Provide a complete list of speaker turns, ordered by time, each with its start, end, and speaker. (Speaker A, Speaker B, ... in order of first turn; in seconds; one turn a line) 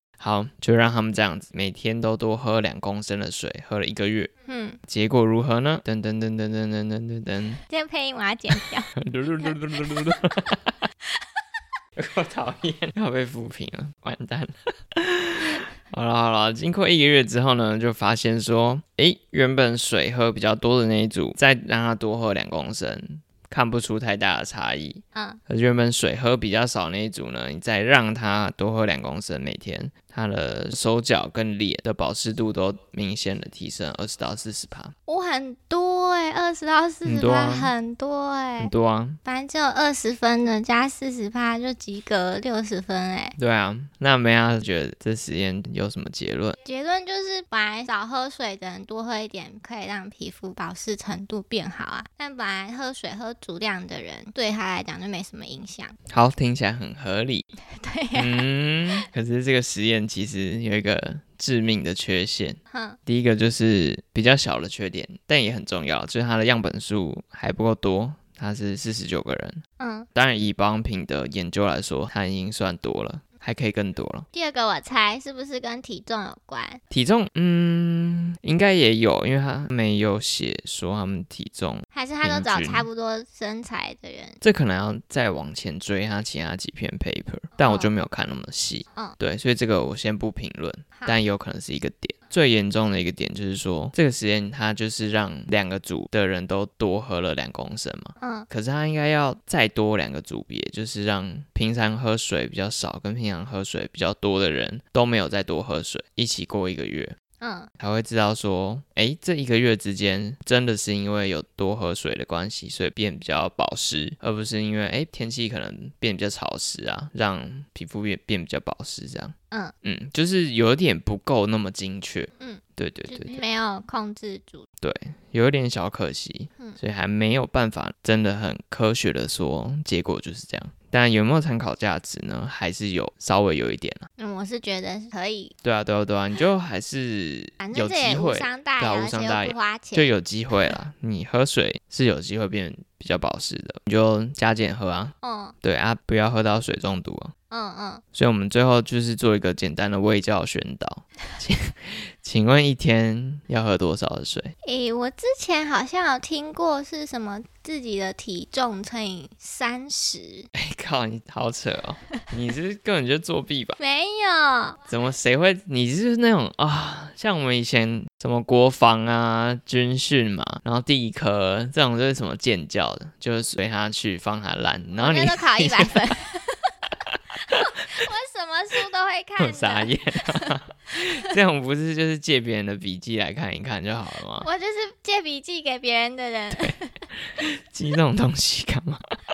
Speaker A: 0.2-4.3
Speaker B: 4.5-4.8
Speaker A: 4.9-7.6
Speaker B: 7.7-8.9
Speaker A: 8.9-10.8
Speaker A: 11.9-34.9
Speaker B: 35.1-38.7
Speaker A: 37.0-37.7
Speaker A: 38.6-39.2
Speaker B: 39.2-43.4
Speaker A: 43.4-46.6
Speaker B: 46.6-55.9
Speaker A: 56.1-57.5
Speaker B: 57.7-58.5
Speaker A: 58.1-69.6
Speaker B: 62.7-63.0
Speaker B: 69.8-70.1
Speaker A: 70.1-74.3
Speaker B: 74.3-76.8
Speaker A: 76.9-82.9
Speaker B: 81.9-84.4
Speaker A: 84.4-107.2
Speaker B: 87.6-87.9
Speaker B: 90.9-91.2
Speaker B: 98.2-98.5
Speaker B: 107.4-107.7
Speaker A: 107.8-123.4
Speaker B: 122.4-124.7
Speaker A: 124.8-134.0
Speaker B: 134.2-135.5
Speaker A: 135.6-147.3
Speaker B: 137.6-140.1
Speaker B: 145.2-145.5
Speaker B: 147.5-148.0
Speaker A: 148.1-154.5
Speaker B: 154.6-160.5
Speaker A: 160.5-163.8
Speaker B: 163.8-164.8
Speaker A: 164.8-176.0
Speaker B: 175.0-176.7
Speaker B: 177.5-180.5
Speaker A: 179.4-184.5
Speaker B: 184.4-186.9
Speaker A: 186.5-186.8
Speaker A: 187.3-189.0